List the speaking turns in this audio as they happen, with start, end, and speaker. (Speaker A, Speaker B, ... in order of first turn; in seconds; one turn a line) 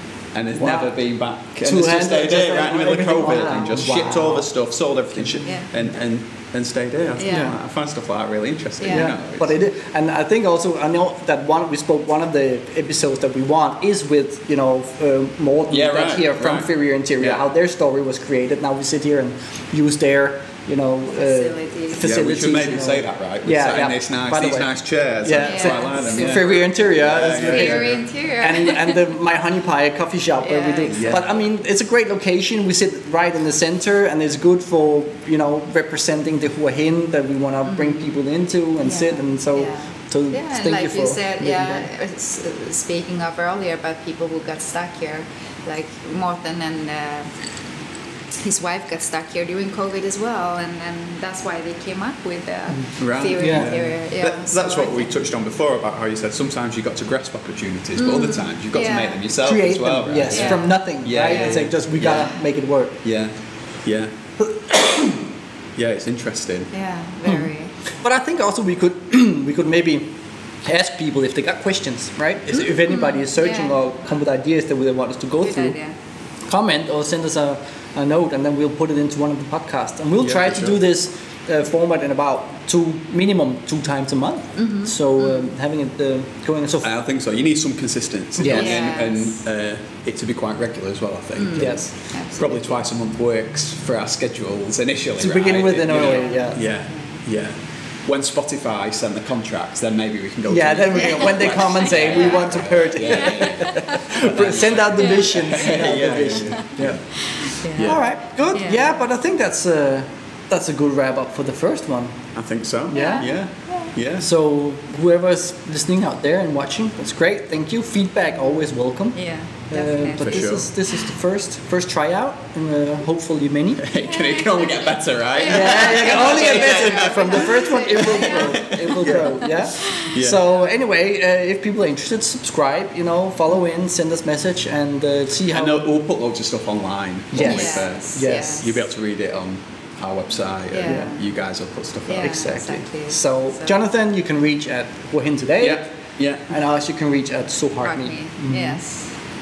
Speaker A: 0.3-9.5
Speaker B: 0.5-0.9
Speaker B: 1.6-4.5
Speaker C: 7.2-7.5
Speaker B: 7.2-7.6
Speaker C: 8.8-9.1
Speaker B: 8.9-24.7
Speaker A: 15.7-17.4
Speaker C: 21.1-22.0
Speaker A: 21.9-28.0
Speaker B: 25.2-41.9
Speaker C: 25.4-26.5
Speaker C: 27.2-29.1
Speaker C: 30.4-31.2
Speaker A: 30.9-31.2
Speaker C: 37.7-38.1
Speaker C: 38.8-47.3
Speaker C: 48.4-55.2
Speaker A: 53.0-62.3
Speaker B: 53.4-53.7
Speaker C: 58.0-59.2
Speaker B: 59.4-63.0
Speaker C: 60.3-60.7
Speaker C: 61.2-61.7
Speaker A: 63.0-64.2
Speaker B: 64.5-65.2
Speaker A: 65.7-66.7
Speaker C: 66.7-67.7
Speaker B: 68.0-70.1
Speaker B: 70.6-75.8
Speaker C: 72.5-73.7
Speaker C: 75.4-75.9
Speaker B: 76.5-86.9
Speaker A: 80.2-80.8
Speaker C: 84.6-85.5
Speaker A: 86.8-91.8
Speaker B: 88.4-88.7
Speaker C: 88.4-89.4
Speaker C: 91.4-92.7
Speaker B: 91.5-91.9
Speaker A: 92.3-107.0
Speaker B: 95.2-96.6
Speaker C: 95.9-97.2
Speaker B: 100.5-107.0
Speaker C: 101.0-104.1
Speaker C: 105.1-105.4
Speaker C: 107.3-108.0
Speaker A: 107.6-108.0
Speaker B: 107.8-112.2
Speaker C: 108.5-108.9
Speaker A: 112.3-114.3
Speaker B: 112.9-113.3
Speaker C: 112.9-113.9
Speaker B: 114.2-119.2
Speaker C: 119.1-120.5
Speaker B: 119.7-123.9
Speaker A: 120.2-120.7
Speaker A: 123.8-130.4
Speaker C: 124.0-129.2
Speaker B: 125.4-135.9
Speaker C: 129.8-130.1
Speaker A: 135.5-142.3
Speaker B: 137.3-138.7
Speaker C: 137.4-138.8
Speaker C: 140.7-141.2
Speaker C: 142.1-143.8
Speaker B: 142.2-145.9
Speaker A: 145.6-146.4
Speaker B: 146.5-148.8
Speaker C: 147.8-149.1